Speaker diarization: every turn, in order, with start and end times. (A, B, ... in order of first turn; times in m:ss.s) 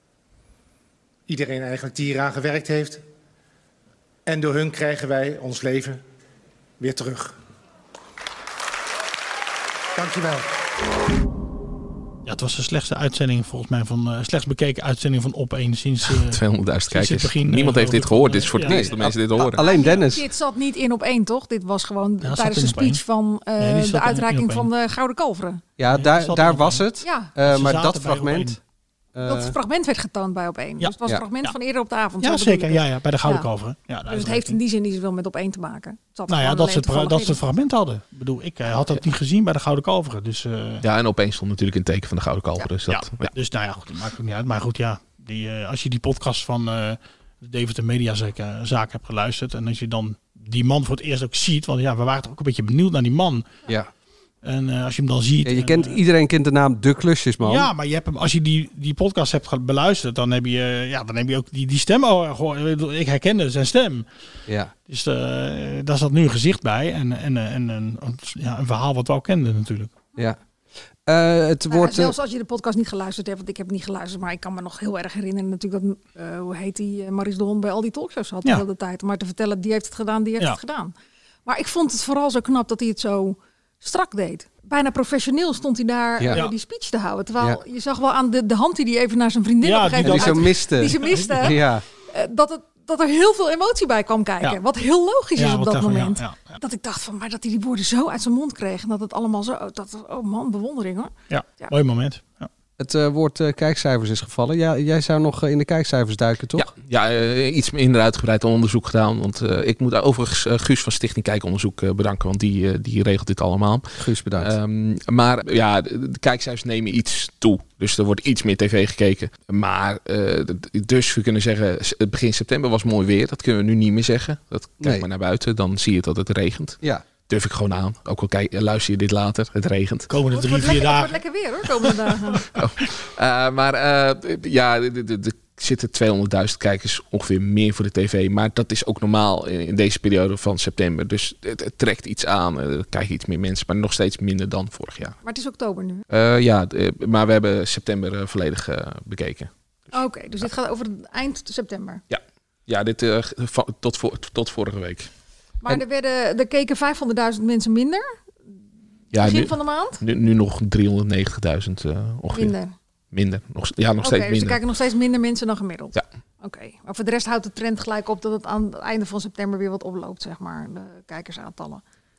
0:01.3-0:03.0 A
0:04.3-0:06.0 A
0:06.8-0:07.4 A
0:10.0-0:10.5 A
0:12.3-0:19.0 B
0:16.3-0:19.6 C
0:18.6-0:20.2 D
0:19.6-0:25.6 E
0:22.2-0:23.0 B
0:23.6-0:24.7 B
0:25.8-0:28.6 D
0:25.9-0:26.8 B
0:27.0-0:27.3 E
0:27.4-0:28.6 B
0:29.2-0:29.6 D
0:29.2-0:33.5 E
0:30.8-0:31.5 B
0:32.2-0:34.6 B
0:34.1-0:37.4 E
0:36.3-0:40.8 B
0:40.8-0:43.3 C
0:42.9-0:53.5 B
0:54.4-0:56.0 B
0:55.4-0:57.7 D
0:57.4-1:04.1 B
1:04.5-1:04.7 D
1:04.9-1:10.0 B
1:11.1-1:12.2 D
1:11.7-1:20.9 E
1:21.5-1:41.7 E
1:29.6-1:31.4 B
1:30.0-1:31.8 D
1:35.4-1:36.6 B
1:41.3-1:42.5 B
1:42.8-1:46.7 D
1:46.6-1:53.9 C
1:54.0-1:54.5 D
1:54.4-2:06.8 C
2:04.8-2:05.1 D
2:07.3-2:10.1 C
2:10.1-2:11.2 B
2:10.3-2:12.5 E
2:12.6-2:25.2 C
2:25.2-2:26.0 E
2:26.1-2:29.5 C
2:29.9-2:32.0 E
2:32.1-2:35.1 C
2:35.6-2:38.2 E
2:39.1-2:42.5 C
2:39.2-2:40.0 E
2:42.3-2:42.7 E
2:43.1-2:44.6 C
2:44.0-2:51.8 E